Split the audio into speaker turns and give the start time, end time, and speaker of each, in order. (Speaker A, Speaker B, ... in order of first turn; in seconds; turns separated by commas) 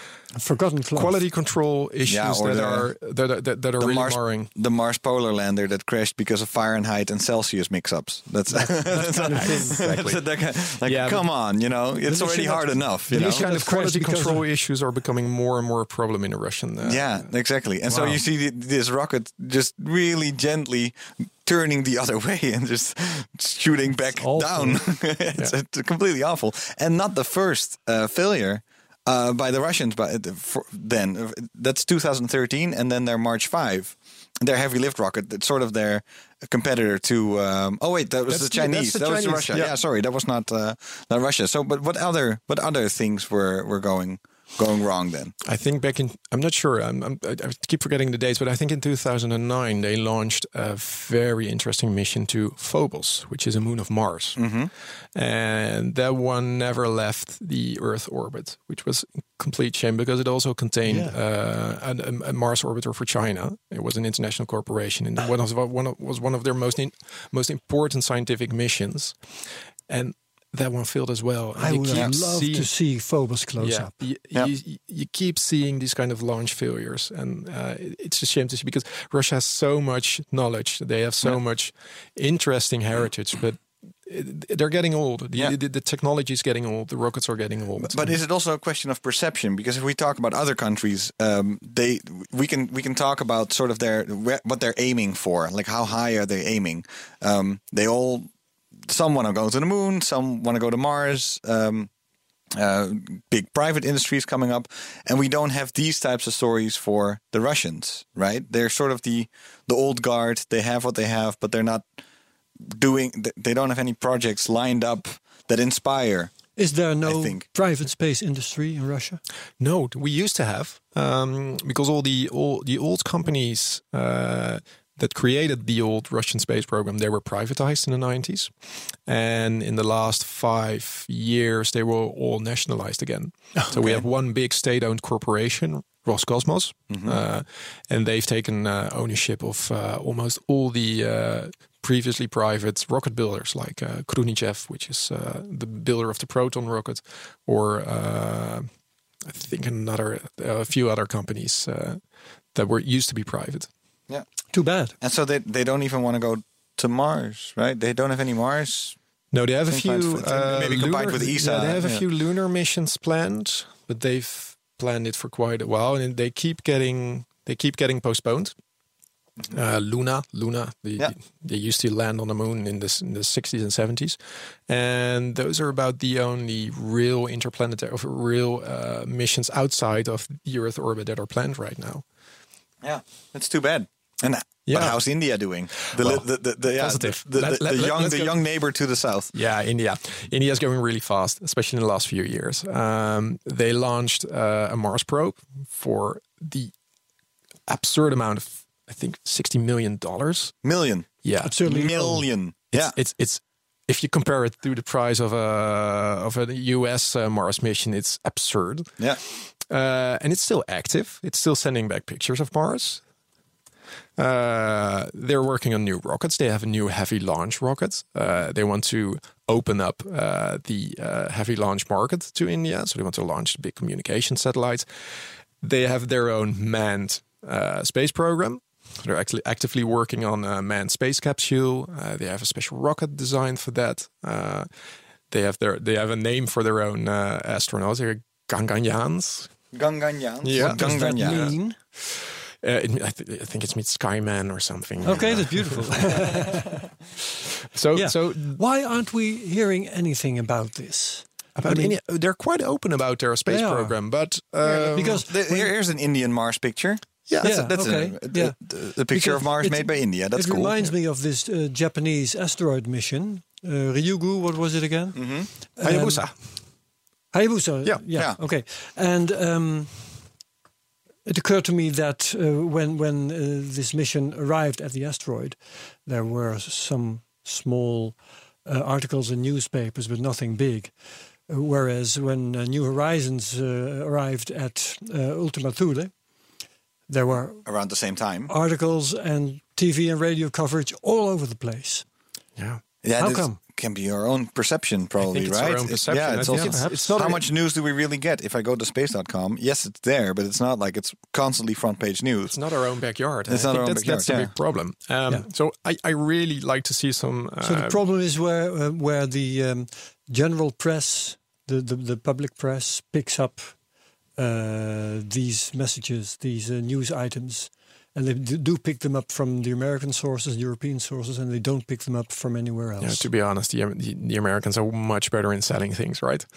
Speaker A: 0.3-1.2, Speaker B: 0.9-4.5, Speaker C: 2.1-2.9, Speaker C: 3.8-13.4, Speaker A: 8.5-9.8, Speaker B: 8.9-11.2, Speaker A: 12.1-14.4, Speaker B: 13.1-17.2, Speaker C: 16.8-45.3, Speaker A: 24.2-24.9, Speaker B: 38.3-39.7, Speaker B: 45.4-54.4, Speaker C: 54.4-54.7, Speaker B: 55.1-69.2, Speaker A: 60.9-61.1, Speaker B: 69.9-72.7, Speaker A: 71.6-73.9, Speaker B: 73.6-88.1, Speaker C: 87.8-98.3, Speaker C: 98.8-101.9, Speaker C: 102.5-111.9, Speaker C: 112.6-116.3, Speaker A: 116.5-119.2, Speaker C: 117.0-117.4, Speaker B: 119.6-128.5, Speaker B: 129.1-148.7, Speaker C: 133.7-134.0, Speaker C: 136.9-137.2, Speaker B: 149.2-152.0, Speaker B: 152.5-153.7, Speaker A: 154.5-154.9, Speaker C: 155.0-158.9, Speaker B: 159.3-168.5, Speaker C: 159.7-162.0, Speaker B: 169.5-174.2, Speaker B: 174.7-182.0, Speaker C: 182.8-189.3, Speaker B: 184.7-185.0, Speaker B: 185.8-188.4, Speaker B: 189.3-196.7, Speaker B: 197.7-200.5, Speaker C: 200.6-201.1, Speaker B: 201.2-201.5, Speaker A: 201.4-202.3, Speaker C: 201.6-202.9, Speaker B: 202.7-213.0, Speaker B: 214.2-224.8, Speaker B: 225.6-234.7, Speaker B: 235.3-239.5, Speaker C: 239.7-241.5, Speaker B: 240.4-246.4, Speaker A: 240.6-241.8, Speaker A: 245.0-246.8, Speaker B: 247.7-248.6, Speaker A: 247.9-251.9, Speaker B: 251.6-255.2, Speaker A: 253.5-254.0, Speaker A: 254.7-255.7, Speaker C: 254.7-260.7, Speaker B: 257.3-257.6, Speaker A: 257.4-266.3, Speaker C: 265.1-265.5, Speaker B: 265.8-266.3, Speaker A: 267.3-270.0, Speaker A: 271.2-280.9, Speaker A: 281.5-286.1, Speaker A: 287.1-287.6, Speaker C: 287.6-288.5, Speaker A: 288.5-292.0, Speaker C: 293.0-302.6, Speaker A: 293.2-293.6, Speaker B: 295.2-297.4, Speaker A: 296.4-297.1, Speaker B: 302.5-308.0, Speaker C: 303.5-304.5, Speaker A: 307.6-313.7, Speaker A: 314.4-323.3, Speaker B: 323.0-326.5